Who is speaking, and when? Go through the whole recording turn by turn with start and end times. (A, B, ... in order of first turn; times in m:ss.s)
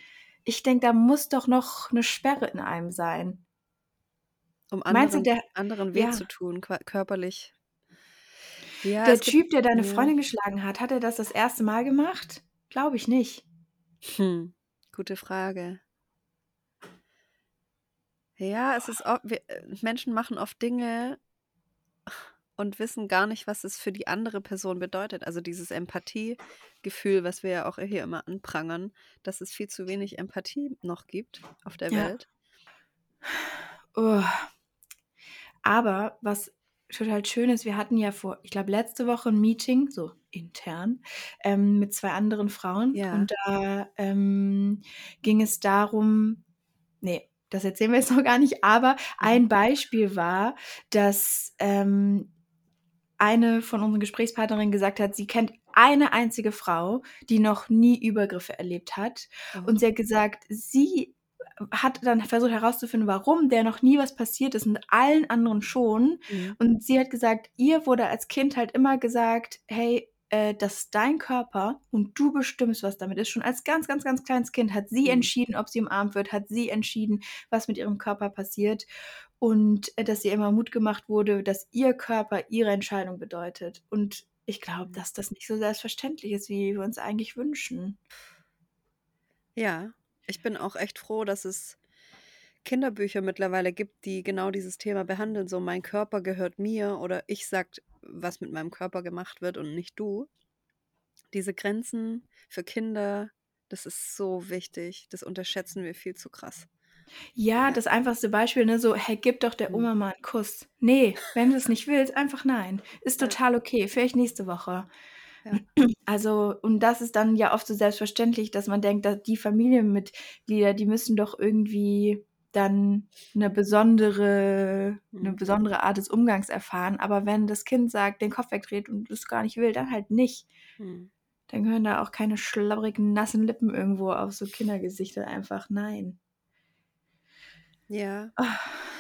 0:00.4-0:03.4 A
0:04.7-0:07.5 B
0:04.9-0:06.2 A
0:08.8-0:10.1 B
0:09.0-0:13.4 A
0:14.0-0:15.8 B
0:18.4-0:21.2 B
0:22.1-0:32.3 B
0:33.3-0:34.5 A
0:35.6-0:46.4 A
0:42.9-0:43.3 B
0:47.0-0:52.3 A
0:53.2-1:18.9 A
0:59.5-0:59.8 B
1:06.3-1:06.6 B
1:15.0-1:15.3 B
1:19.4-1:28.0 A
1:29.6-1:31.8 B
1:32.6-1:40.3 B
1:41.3-1:46.7 B
1:47.4-1:54.9 A
1:55.6-2:10.5 A
2:05.1-2:05.4 B
2:10.8-2:11.1 B
2:11.5-2:16.2 A
2:17.9-2:18.3 B
2:18.4-2:18.7 A